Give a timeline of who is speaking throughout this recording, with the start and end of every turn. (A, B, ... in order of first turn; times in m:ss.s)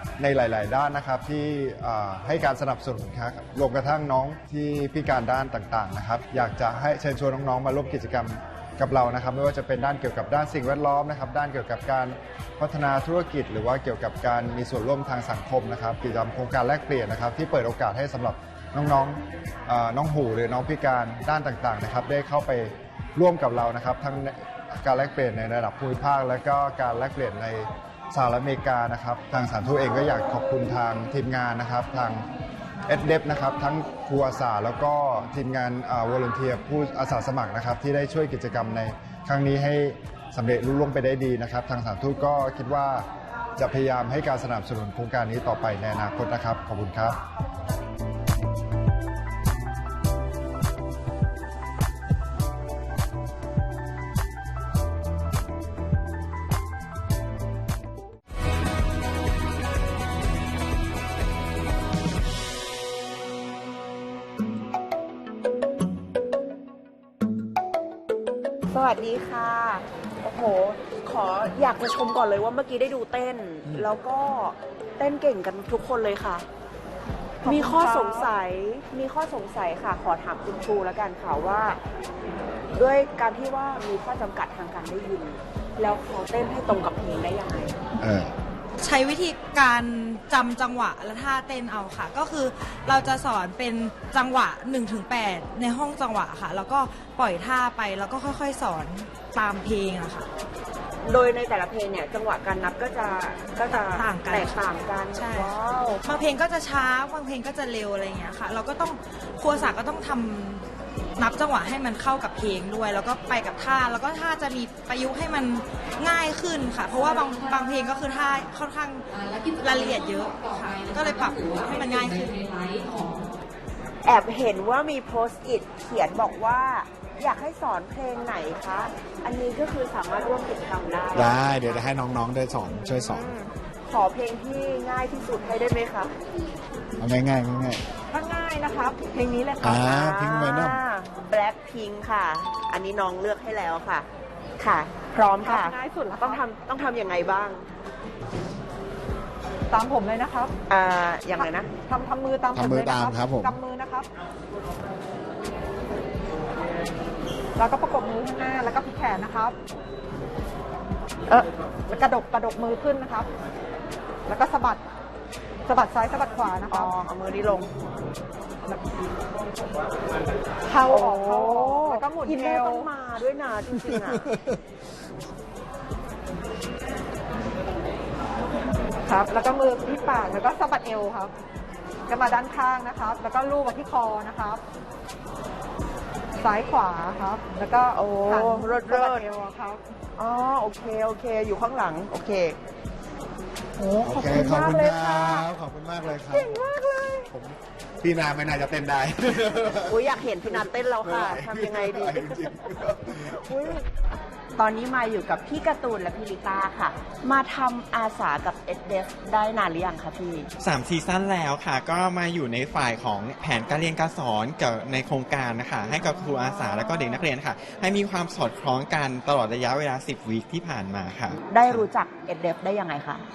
0:00.2-0:32.2 A
0:32.9-0:47.2 A
1:08.7-1:16.4 B
1:17.4-1:21.8 B
1:17.4-1:18.3 C
1:22.7-1:27.8 B
1:28.0-1:28.3 D
1:28.8-1:40.3 E
1:41.0-1:46.0 B
1:43.9-1:45.5 E
1:46.0-1:50.6 E
1:51.2-1:59.1 E
1:56.9-1:58.2 C
1:59.1-2:03.3 C
1:59.6-2:02.4 E
2:04.0-2:11.5 B
2:11.1-2:13.3 D
2:12.7-2:16.1 B
2:17.0-2:17.8 D
2:18.1-2:19.8 C
2:19.6-2:20.8 D
2:19.7-2:24.1 B
2:24.6-2:27.6 B
2:25.4-2:26.4 C
2:29.7-2:30.5 C
2:30.7-2:31.7 B
2:31.3-2:34.1 C
2:32.5-2:33.6 D
2:37.6-2:39.5 C
2:41.9-2:43.3 C
2:44.3-2:44.8 C
2:45.6-2:46.9 C
2:46.7-2:47.7 B
2:50.6-2:52.9 C
2:50.9-2:54.3 B
2:54.1-2:54.5 D
2:59.1-3:01.3 C
3:02.1-3:04.6 C
3:06.4-3:09.8 C
3:07.9-3:09.2 B
3:10.2-3:12.6 B
3:13.8-3:14.0 C
3:13.8-3:15.5 B
3:14.0-3:16.7 D
3:16.8-3:17.1 B
3:17.3-3:23.7 D
3:19.9-3:22.6 B
3:24.5-3:30.5 B
3:30.6-3:41.8 F
3:36.0-3:37.3 B
3:41.5-3:43.2 B